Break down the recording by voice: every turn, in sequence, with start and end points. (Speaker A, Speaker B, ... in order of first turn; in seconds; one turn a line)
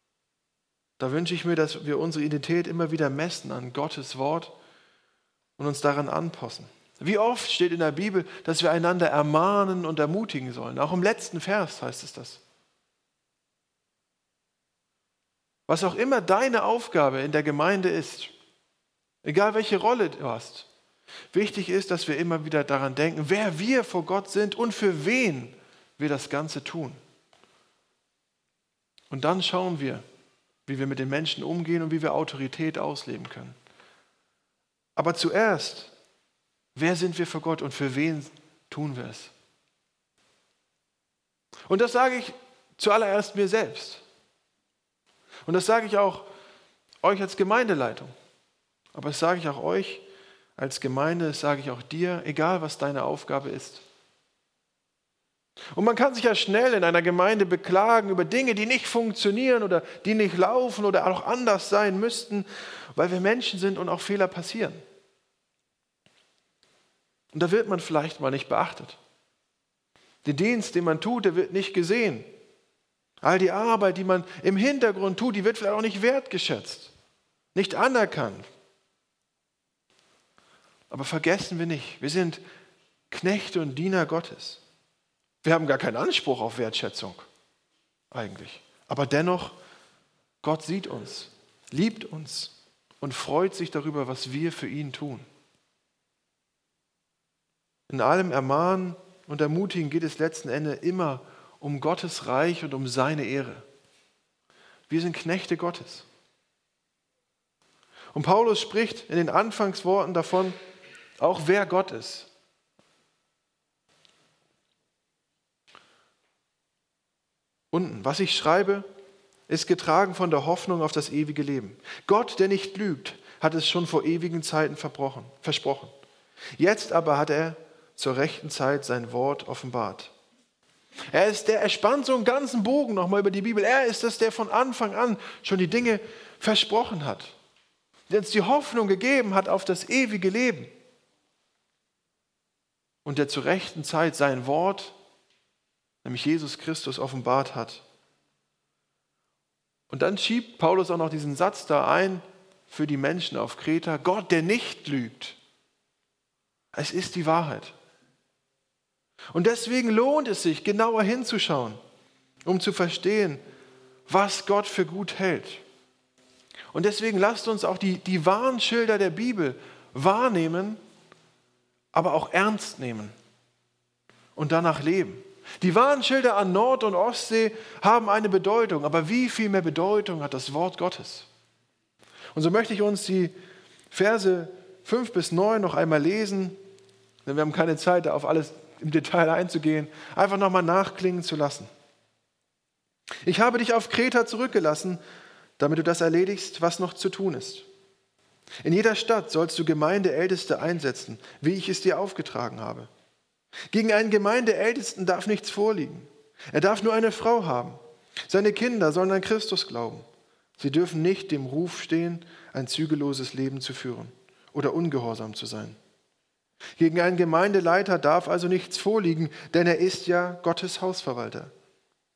Speaker A: 1.0-4.5
Speaker A: 5.6-12.4
Speaker A: 15.7-18.3
Speaker A: 19.2-20.7
Speaker A: 21.3-27.0
Speaker A: 29.1-30.0
Speaker A: 30.7-33.6
Speaker A: 35.0-35.9
Speaker A: 36.7-39.3
Speaker A: 41.7-44.0
Speaker A: 45.5-46.3
Speaker A: 47.0-48.1
Speaker A: 48.9-50.0
Speaker A: 50.6-53.8
Speaker A: 55.7-64.8
Speaker A: 67.3-69.0
Speaker A: 70.2-72.3
Speaker A: 73.2-76.9
Speaker A: 77.5-78.5
Speaker A: 80.9-82.4
Speaker A: 83.1-84.6
Speaker A: 85.4-87.3
Speaker A: 88.1-89.5
Speaker A: 90.4-95.3
Speaker A: 97.9-103.7
Speaker A: 104.9-106.0
Speaker A: 108.1-110.6
Speaker A: 111.2-112.3
Speaker A: 117.7-118.8
Speaker A: 119.5-125.9
Speaker A: 126.6-130.1
Speaker A: 131.1-137.3
Speaker A: 138.1-140.7
Speaker A: 143.0-144.9
Speaker A: 146.0-147.8
Speaker A: 149.9-155.4
Speaker A: 156.7-157.7
Speaker A: 159.3-161.8
Speaker A: 162.4-163.4
Speaker A: 164.1-165.6
Speaker A: 166.7-170.8
Speaker A: 171.9-173.1
Speaker A: 174.3-181.3
Speaker A: 182.3-183.3
Speaker A: 183.9-186.6
Speaker A: 187.2-191.7
Speaker A: 193.2-195.0
Speaker A: 195.6-197.7
Speaker A: 198.6-202.9
Speaker A: 203.7-210.0
Speaker A: 210.6-215.8
Speaker A: 216.8-221.5